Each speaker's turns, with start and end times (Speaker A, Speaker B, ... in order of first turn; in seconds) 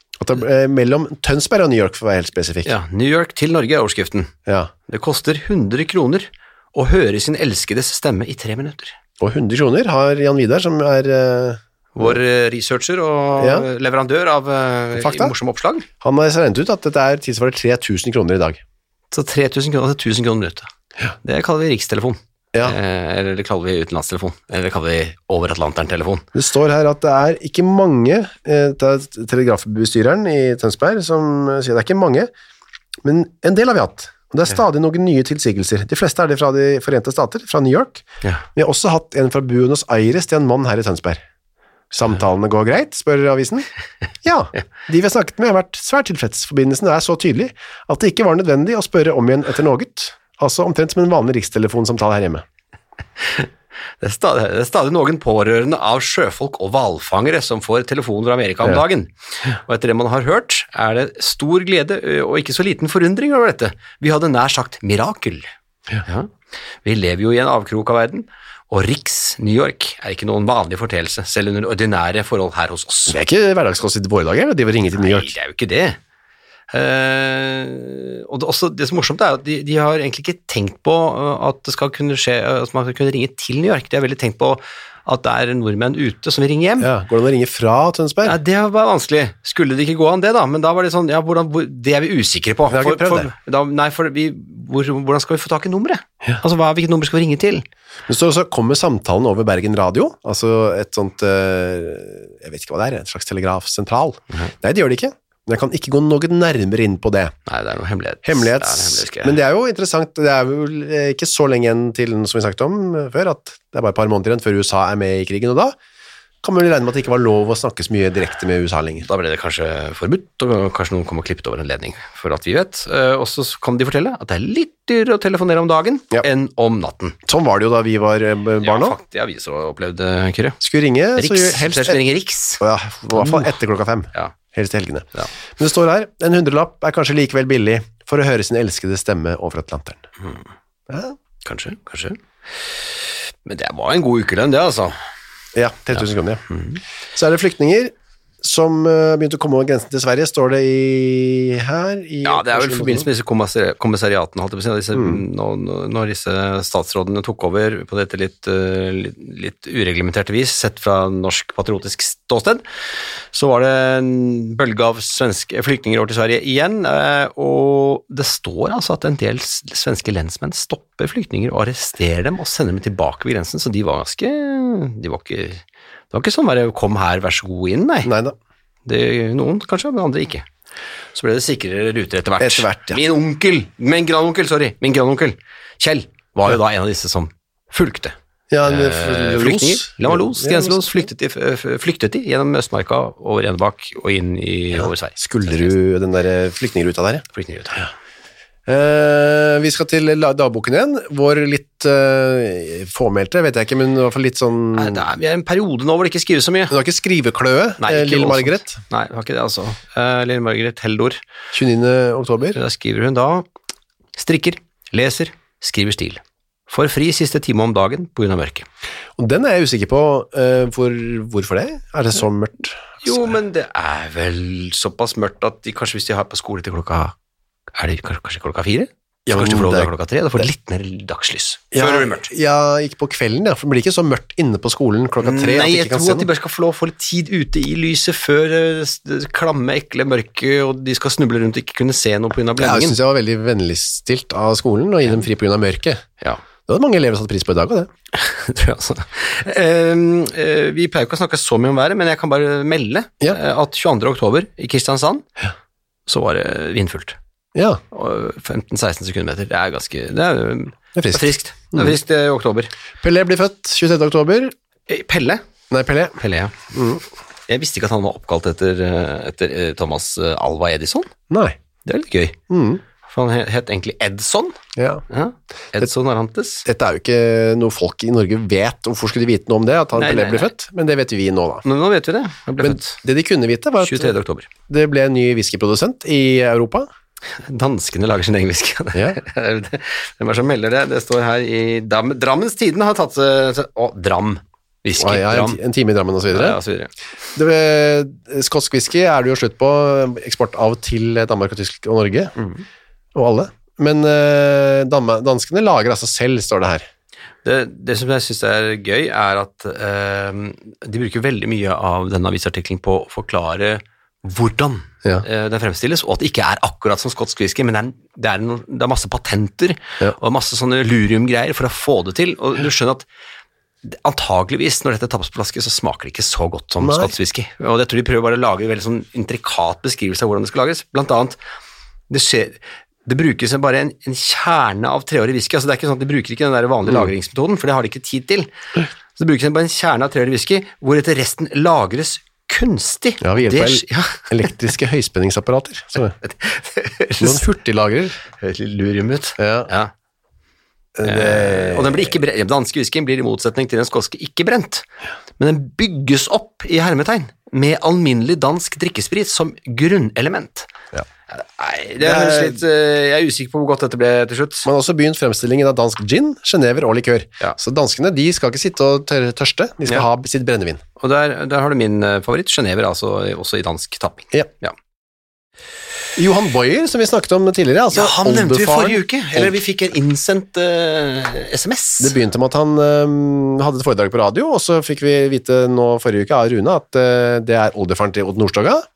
Speaker A: 0.2-2.7, 4.5-4.7, 9.2-12.2, 13.4-13.7, 14.9-15.3, 16.0-18.6, 26.3-32.3, 33.0-38.0, 38.5-41.2, 41.9-43.7, 44.2-52.4, 73.1-75.3, 86.8-88.4, 92.7-93.3, 98.1-107.3, 108.2-115.8, 116.4-119.1, 127.3-128.9, 130.6-132.0, 132.6-140.0, 140.9-141.2, 145.5-146.4, 147.1-153.1, 154.9-155.2, 178.0-178.3, 182.4-183.0, 188.5-190.8, 194.7-197.2, 198.7-205.0, 206.7-208.8, 211.5-212.6, 219.2-223.3, 229.2-229.9, 231.7-236.3, 242.6-246.0, 246.7-247.9, 257.5-257.8, 260.9-261.9, 263.0-264.5, 265.7-266.2, 266.7-267.0, 271.3-271.6, 272.5-272.8, 274.8-275.0, 276.6-281.6, 282.6-284.1, 284.7-286.9, 295.0-296.6, 297.3-302.3, 303.1-306.9, 326.8-327.1, 343.2-346.1, 347.2-348.2, 349.4-349.7, 350.9-352.1, 362.0-362.6, 364.6-370.8, 376.1-379.5, 382.0-388.8
Speaker B: 2.6-4.3, 4.9-9.0, 11.9-15.8, 19.1-20.7, 21.2-26.2, 53.2-65.5, 66.0-66.3, 66.8-73.2, 75.0-76.0, 76.7-86.9, 88.2-97.7, 107.5-109.4, 119.0-127.2, 128.6-130.6, 131.2-132.6, 133.1-133.5, 141.4-142.2, 143.4-145.0, 146.5-146.8, 152.2-162.6, 163.3-178.1, 178.8-180.5, 181.1-195.7, 197.3-197.9, 204.8-206.8, 207.8-211.2, 212.5-213.5, 214.2-218.7, 223.0-227.1, 227.8-232.3, 235.2-243.0, 248.1-255.2, 256.1-257.2, 257.9-262.7, 264.9-265.4, 266.2-266.6, 267.5-271.1, 271.8-272.4, 273.0-276.6, 279.9-280.5, 281.6-283.0, 283.8-284.5, 287.4-295.6, 296.3-296.9, 302.4-302.6, 307.4-323.1, 323.8-331.4, 332.1-338.5, 339.1-344.3, 346.2-347.4, 348.4-349.9, 351.0-354.9, 355.4-360.7, 361.3-364.7, 371.0-374.7, 377.9-382.1